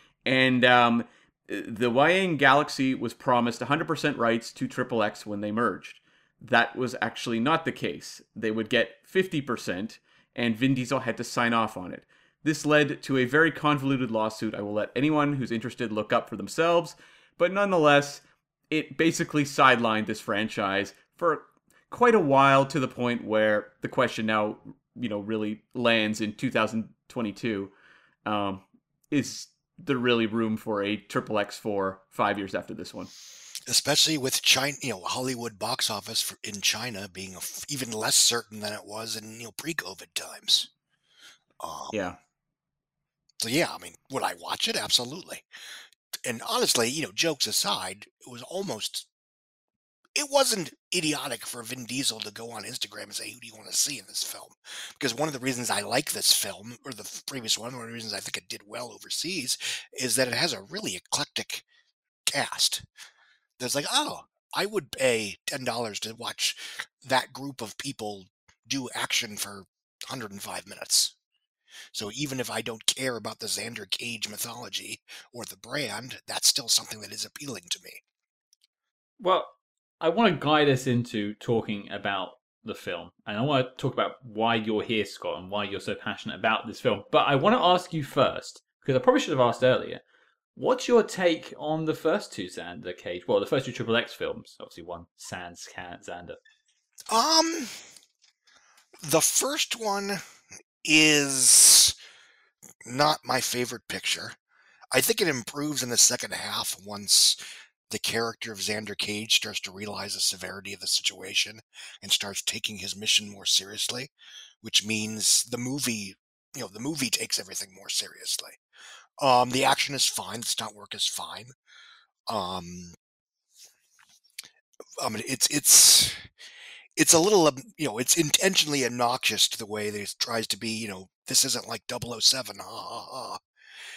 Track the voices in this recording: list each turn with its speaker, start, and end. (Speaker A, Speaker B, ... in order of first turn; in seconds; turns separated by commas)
Speaker A: 0.2-27.7, Speaker A: 28.2-33.1, Speaker B: 33.7-40.7, Speaker B: 41.6-42.1, Speaker A: 41.9-42.2, Speaker B: 43.4-45.4, Speaker B: 46.2-49.1, Speaker B: 50.1-61.6, Speaker B: 62.3-62.8, Speaker B: 63.6-71.1, Speaker B: 71.9-78.0, Speaker C: 79.2-90.0, Speaker C: 90.5-96.4, Speaker B: 97.1-97.8, Speaker B: 99.0-100.2, Speaker B: 100.8-101.9, Speaker B: 102.8-104.3, Speaker B: 104.9-114.1, Speaker B: 114.6-118.6, Speaker B: 119.2-121.5, Speaker B: 122.3-122.9, Speaker B: 125.0-126.2, Speaker B: 127.0-133.4